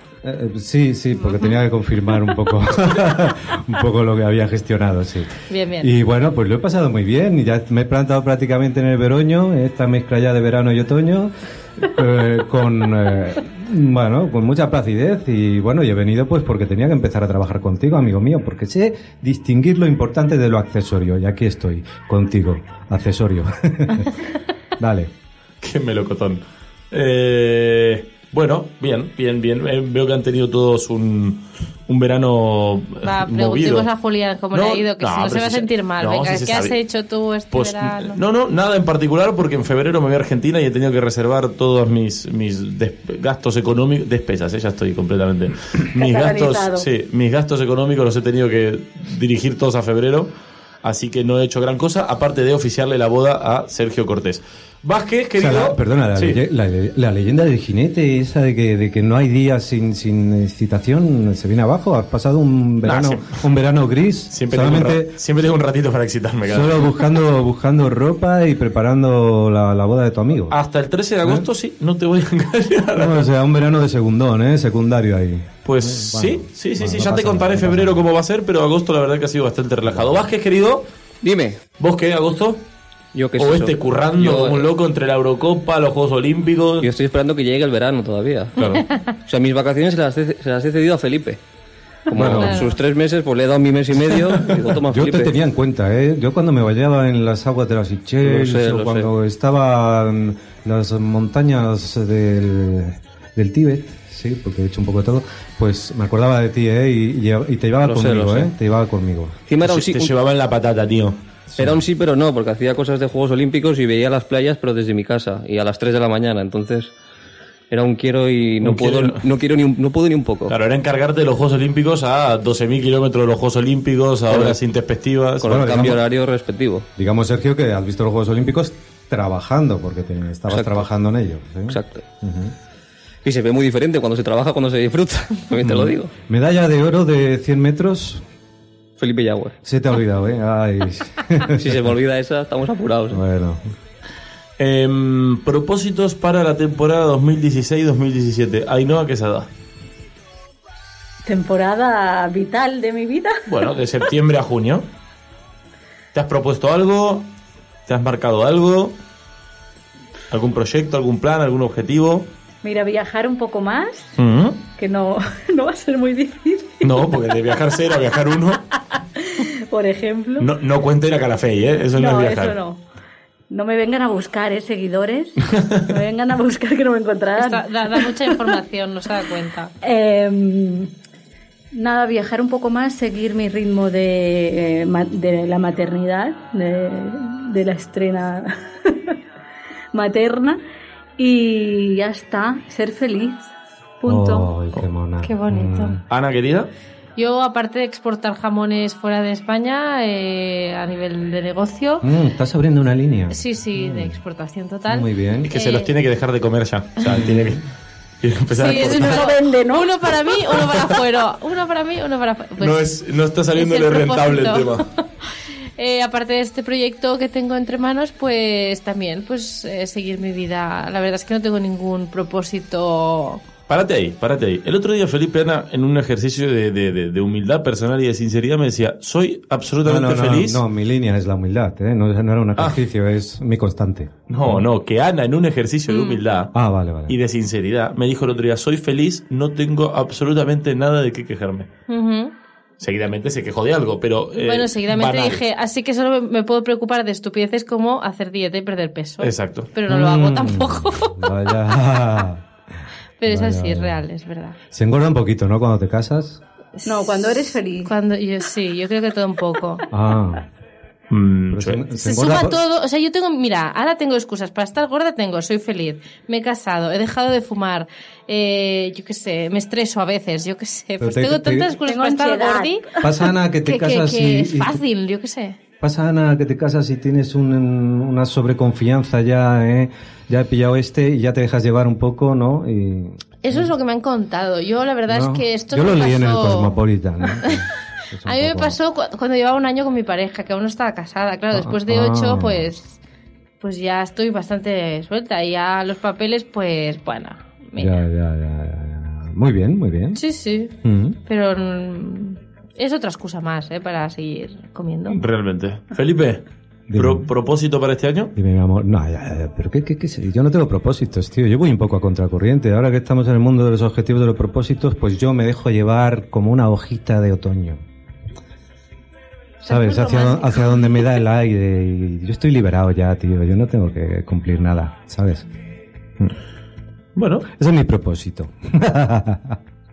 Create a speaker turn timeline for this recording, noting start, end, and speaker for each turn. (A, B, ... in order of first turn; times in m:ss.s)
0:00.2-0:24.2 A
0:01.2-0:01.6 B
0:05.5-0:05.9 B
0:24.8-0:25.1 A
0:25.6-0:33.9 C
0:33.0-0:38.2 B
0:34.5-0:36.8 C
0:37.5-0:56.4 C
0:45.9-0:46.9 D
0:55.4-1:05.2 A
1:02.8-1:03.4 C
1:04.3-1:07.1 C
1:06.5-1:10.6 A
1:10.5-1:13.3 C
1:12.9-1:18.0 A
1:15.6-1:20.9 C
1:19.9-1:20.2 A
1:21.2-1:21.6 E
1:21.8-1:22.6 C
1:23.1-1:24.6 E
1:23.4-1:26.9 C
1:26.8-1:31.4 E
1:28.6-1:28.8 C
1:32.1-1:35.3 E
1:32.1-1:32.6 A
1:32.3-1:32.8 B
1:34.9-1:49.4 A
1:38.2-1:39.1 E
1:47.8-1:48.5 E
1:49.5-1:50.1 E
1:49.6-1:51.2 C
1:51.6-1:51.8 A
1:51.6-1:56.9 E
1:57.7-2:00.5 E
1:58.6-1:59.2 C
2:00.5-2:05.8 C
2:04.3-2:04.6 E
2:05.4-2:06.9 E
2:05.4-2:06.0 A
2:07.0-2:12.5 A
2:10.5-2:10.8 E
2:11.7-2:12.0 E
2:13.2-2:16.1 E
2:15.6-2:18.2 A
2:19.0-2:19.6 E
2:19.6-2:21.9 A
2:21.5-2:23.2 E
2:23.1-2:23.6 A
2:24.6-2:29.5 C
2:31.3-2:33.5 D
2:33.5-2:34.9 C
2:36.1-2:37.3 C
2:37.9-2:39.0 C
2:40.3-2:42.3 C
2:42.6-2:44.1 D
2:44.2-2:44.6 C
2:44.8-2:47.1 D
2:46.8-2:48.6 C
2:49.4-2:50.5 D
2:50.4-2:52.6 C
2:51.9-2:52.8 D
2:53.5-2:58.6 D
2:55.6-2:55.8 C
2:57.4-2:59.7 B
2:59.8-3:00.9 D
3:01.7-3:08.5 D
3:09.9-3:10.6 D
3:11.2-3:14.5 D
3:14.1-3:16.0 A
3:15.2-3:16.0 B
3:16.1-3:16.7 C
3:17.2-3:22.1 B
3:22.0-3:24.2 A
3:23.3-3:25.9 B
3:24.9-3:25.5 A
3:25.5-3:27.6 C
3:27.1-3:27.5 A
3:28.2-3:29.3 C
3:28.6-3:32.9 B
3:28.6-3:30.0 D
3:30.6-3:30.9 C
3:32.6-3:34.8 C
3:33.6-3:34.9 B
3:35.8-3:43.4 B
3:43.7-3:50.6 C
3:49.8-3:54.6 A
3:54.3-3:56.6 C
3:55.9-3:56.2 B
3:56.5-3:57.2 A
3:57.1-4:01.7 C
4:01.9-4:02.3 B
4:02.8-4:05.4 C
4:04.4-4:11.5 B
4:09.2-4:09.7 C
4:09.9-4:12.4 A
4:13.2-4:14.6 B
4:13.2-4:14.0 A
4:14.7-4:16.4 A
4:16.8-4:19.9 B
4:16.8-4:17.9 D
4:19.9-4:20.5 A
4:21.1-4:21.8 C
4:21.5-4:22.6 A
4:21.9-4:32.9 B
4:31.0-4:31.8 A
4:31.8-4:33.2 D
4:33.0-4:34.8 A
4:33.6-4:35.6 B
4:35.8-4:43.7 A
4:43.4-4:46.8 B
4:45.1-4:48.8 A
4:48.2-4:53.0 B
4:51.5-4:52.7 A
4:53.6-4:57.9 B
4:57.8-5:00.2 A
5:00.1-5:00.7 B
5:00.8-5:01.2 A
5:01.3-5:05.2 B
5:05.1-5:08.3 C
5:06.9-5:07.3 A
5:08.4-5:17.8 A
5:19.6-5:21.0 B
5:19.6-5:25.5 A
5:27.2-5:27.5 C
5:27.6-5:29.6 A